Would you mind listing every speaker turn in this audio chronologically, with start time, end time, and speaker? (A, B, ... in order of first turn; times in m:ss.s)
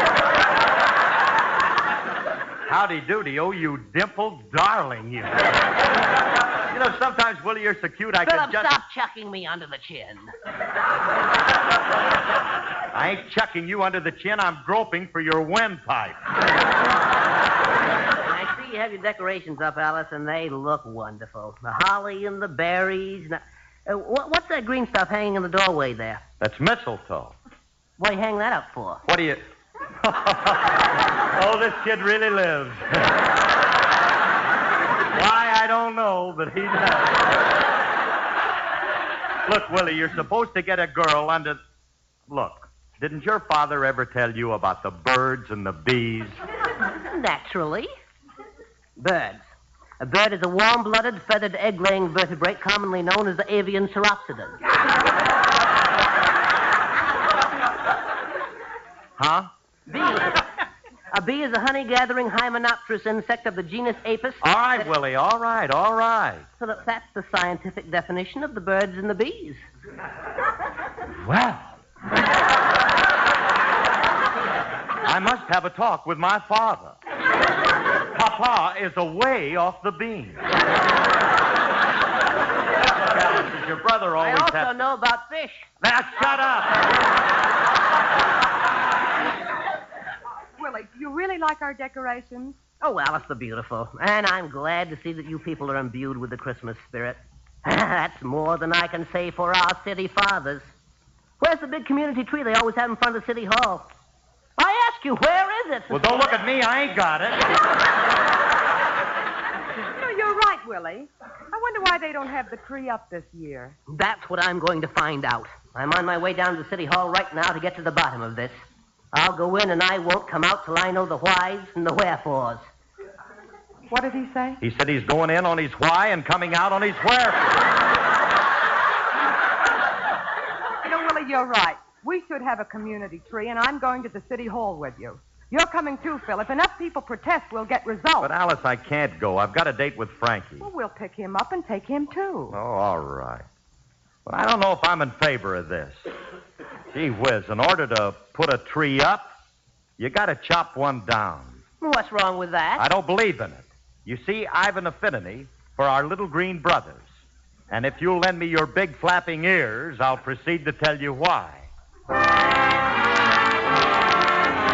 0:02.7-0:05.6 A
0:06.7-0:08.8 A
0:08.2-0:10.3 B
0:12.9-0:16.2 A
0:18.2-0:26.2 B
0:26.4-0:27.4 A
0:28.0-0:29.0 B
0:29.0-0:29.4 A
0:30.0-0:30.7 A
0:31.3-0:33.1 A
0:35.1-0:37.3 A
0:39.4-0:41.6 A
0:42.3-0:46.4 A
0:47.0-0:47.9 B
0:49.0-0:49.4 B
0:50.0-0:54.6 B
0:59.2-0:59.5 A
0:59.9-1:00.4 B
1:01.1-1:04.9 B
1:04.4-1:06.5 A
1:06.6-1:09.6 B
1:11.2-1:11.8 A
1:15.0-1:17.0 A
1:18.1-1:20.4 A
1:23.0-1:24.7 A
1:24.2-1:25.7 B
1:25.8-1:26.9 A
1:30.6-1:32.6 C
1:32.8-1:40.7 B
1:41.4-1:43.9 B
1:44.6-1:46.3 B
1:45.9-1:47.6 A
1:49.9-1:53.8 C
1:53.9-1:58.6 B
1:59.1-2:02.6 B
2:03.9-2:04.6 C
2:04.6-2:07.5 A
2:10.8-2:18.3 C
2:18.2-2:20.7 A
2:20.6-2:22.5 C
2:22.5-2:23.4 A
2:24.2-2:26.0 A
2:26.9-2:29.4 A
2:30.0-2:31.6 A
2:31.8-2:32.8 B
2:32.8-2:37.1 A
2:37.7-2:41.7 A